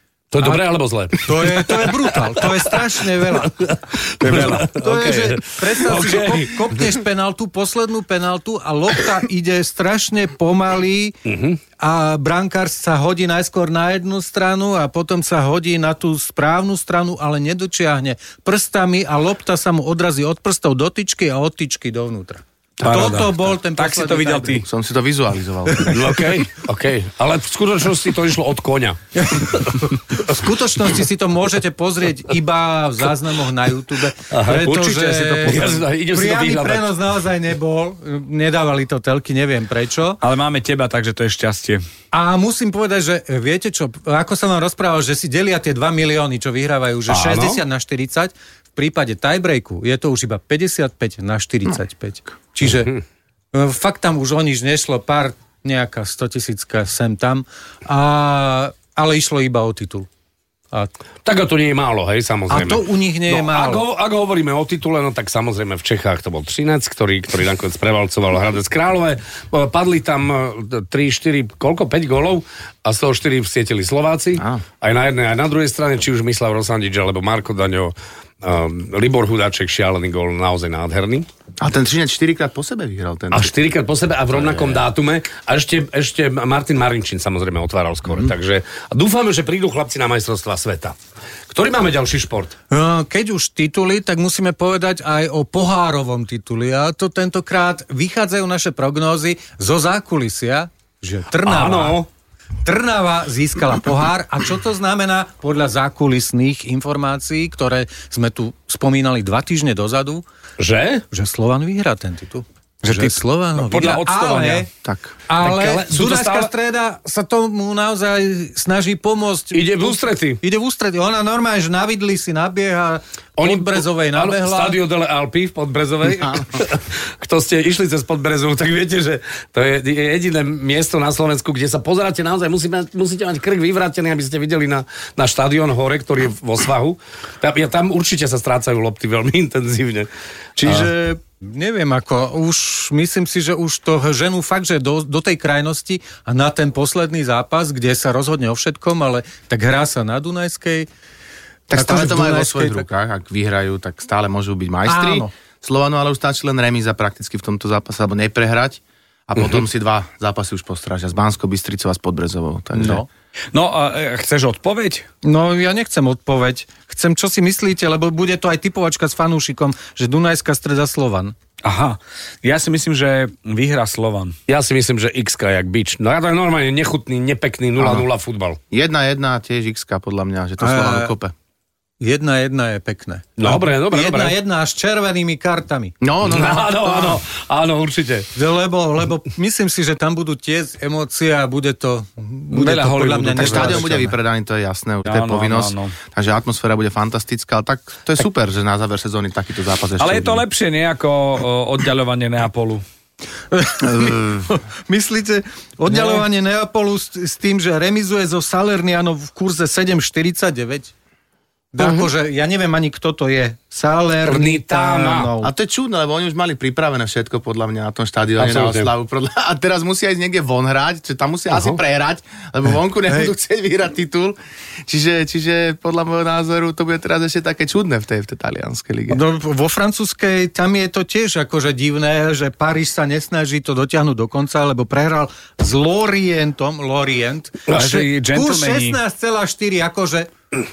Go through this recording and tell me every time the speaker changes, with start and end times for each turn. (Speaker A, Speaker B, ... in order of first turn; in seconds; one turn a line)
Speaker A: 0.3-1.9
Speaker B: 1.2-3.6
Speaker A: 3.3-6.8
Speaker B: 4.2-11.2
Speaker A: 11.2-11.6
Speaker B: 11.8-24.6
Speaker C: 22.8-24.6
Speaker D: 24.6-26.0
Speaker A: 25.9-30.2
Speaker B: 30.1-40.2
Speaker A: 34.3-36.9
Speaker C: 40.2-41.8
Speaker B: 42.1-53.0
Speaker C: 47.2-47.6
Speaker B: 53.5-60.1
Speaker A: 61.2-81.3
Speaker B: 62.5-63.8
Speaker D: 74.3-74.6
Speaker D: 81.6-83.5
Speaker A: 83.3-90.9
Speaker D: 84.3-84.8
Speaker A: 91.5-92.5
Speaker B: 92.7-102.0
Speaker A: 101.4-102.1
Speaker B: 102.6-110.2
Speaker A: 110.6-111.0
Speaker B: 111.1-114.7
Speaker C: 112.8-114.7
Speaker D: 114.8-115.1
Speaker B: 115.3-124.8
Speaker A: 115.4-116.5
Speaker A: 119.5-120.4
Speaker A: 123.4-140.1
Speaker A: 140.6-140.9
Speaker B: 140.6-150.9
Speaker D: 151.7-163.0
Speaker B: 151.7-152.8
Speaker B: 154.8-155.3
Speaker B: 162.7-163.1
Speaker C: 163.5-165.1
Speaker B: 165.2-171.3
Speaker C: 171.6-174.3
Speaker A: 174.5-178.6
Speaker D: 177.8-178.1
Speaker D: 178.7-181.3
Speaker B: 180.6-181.1
Speaker B: 182.0-185.9
Speaker A: 183.4-184.3
Speaker D: 186.0-187.2
Speaker A: 186.3-188.3
Speaker B: 188.3-194.2
Speaker C: 192.5-193.8
Speaker D: 193.3-200.4
Speaker C: 195.1-195.9
Speaker C: 200.0-202.8
Speaker B: 203.5-210.9
Speaker B: 211.7-215.5
Speaker A: 211.8-212.1
Speaker A: 214.3-215.3
Speaker D: 215.4-229.2
Speaker A: 218.4-218.9
Speaker A: 221.5-221.8
Speaker B: 229.1-240.3
Speaker C: 237.8-239.0